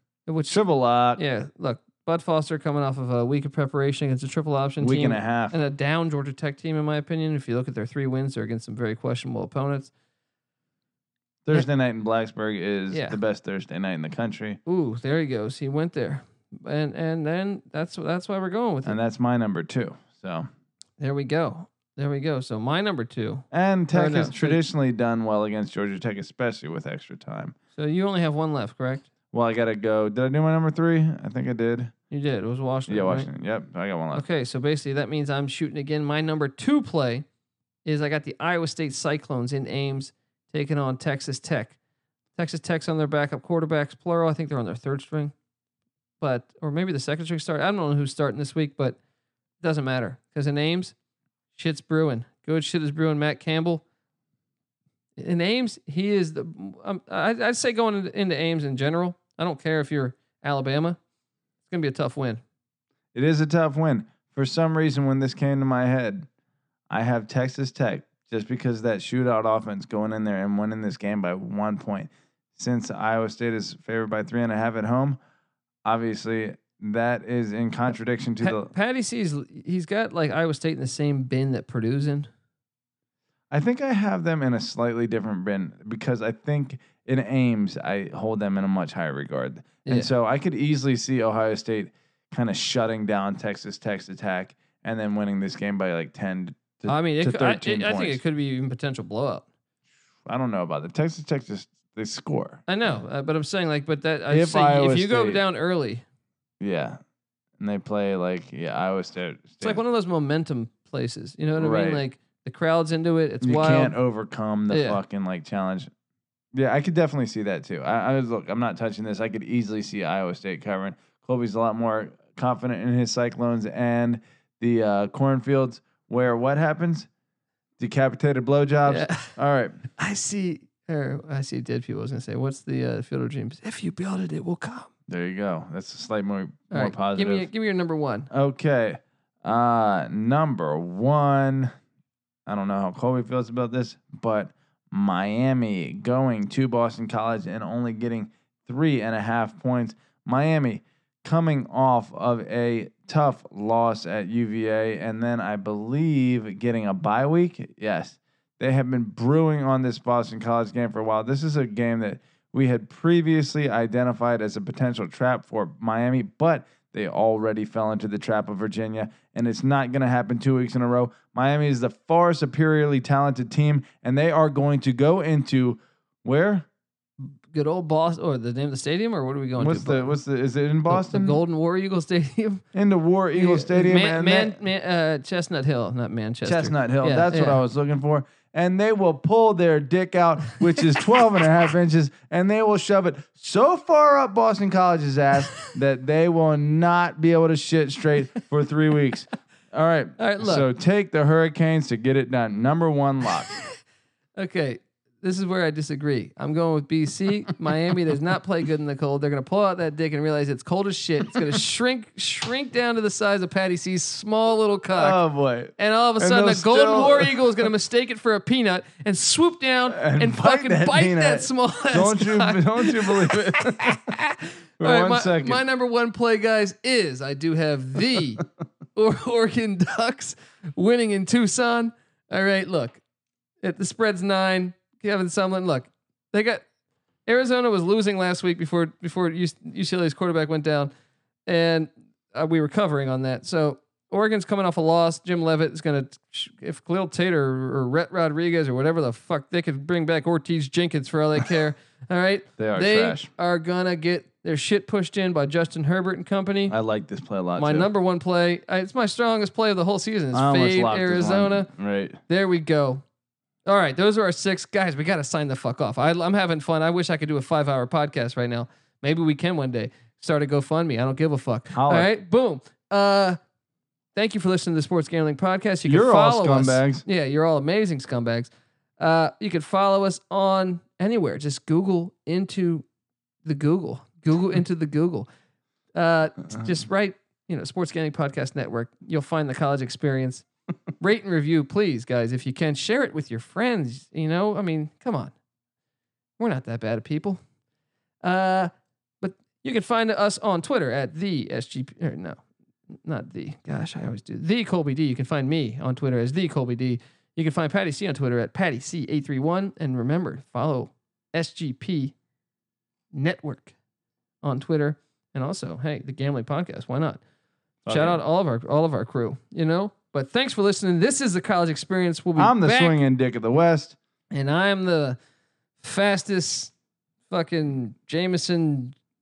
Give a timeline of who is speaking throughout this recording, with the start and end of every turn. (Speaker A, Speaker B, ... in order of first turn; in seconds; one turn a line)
Speaker A: 0.3-0.6
Speaker B: 0.5-1.2
Speaker A: 1.1-9.9
Speaker B: 4.8-5.5
Speaker B: 11.4-14.6
Speaker A: 12.9-13.2
Speaker A: 14.7-19.0
Speaker B: 18.8-20.5
Speaker A: 21.0-24.6
Speaker B: 23.5-27.6
Speaker A: 27.7-29.1
Speaker B: 29.3-31.9
Speaker A: 32.1-33.3
Speaker B: 32.9-34.3
Speaker A: 34.1-37.2
Speaker A: 37.8-41.8
Speaker A: 42.4-45.3
Speaker A: 46.2-49.0
Speaker A: 49.6-50.9
Speaker A: 51.5-53.8
Speaker A: 55.2-61.0
Speaker A: 61.6-62.4
Speaker B: 63.1-66.3
Speaker B: 66.9-75.2
Speaker B: 75.8-78.7
Speaker A: 78.4-82.3
Speaker B: 83.5-98.2
Speaker A: 96.9-99.4
Speaker B: 100.3-102.7
Speaker A: 102.7-106.0
Speaker B: 104.3-105.4
Speaker B: 106.6-107.0
Speaker B: 107.6-109.8
Speaker A: 109.6-114.0
Speaker B: 111.6-112.0
Speaker B: 113.4-115.9
Speaker A: 114.7-115.0
Speaker B: 116.5-127.1
Speaker B: 127.8-129.8
Speaker A: 128.8-129.4
Speaker A: 130.0-134.9
Speaker B: 135.1-137.5
Speaker A: 136.7-138.3
Speaker B: 138.3-141.7
Speaker B: 142.4-176.7
Speaker A: 177.2-180.2
Speaker B: 179.6-181.4
Speaker A: 180.9-182.6
Speaker B: 182.7-184.6
Speaker A: 183.3-187.6
Speaker B: 186.4-203.5
Speaker A: 200.2-200.7
Speaker A: 204.4-215.2
Speaker B: 214.9-217.7
Speaker A: 215.8-233.0
Speaker B: 219.9-224.2
Speaker B: 224.8-225.6
Speaker A: 233.6-236.6
Speaker A: 237.3-240.9
Speaker A: 241.5-256.7
Speaker B: 252.6-253.3
Speaker B: 256.7-257.9
Speaker A: 257.6-261.7
Speaker B: 260.3-262.2
Speaker A: 262.3-263.0
Speaker A: 263.6-273.4
Speaker B: 271.7-272.1
Speaker A: 274.1-282.8
Speaker B: 275.8-277.1
Speaker A: 283.4-285.3
Speaker A: 285.9-290.4
Speaker A: 291.0-295.3
Speaker A: 296.4-297.4
Speaker A: 298.2-302.4
Speaker A: 303.1-312.1
Speaker A: 313.1-313.7
Speaker A: 314.4-317.2
Speaker B: 317.8-318.2
Speaker A: 317.9-323.0
Speaker B: 322.4-323.9
Speaker A: 324.3-325.2
Speaker A: 325.8-326.7
Speaker A: 327.3-328.9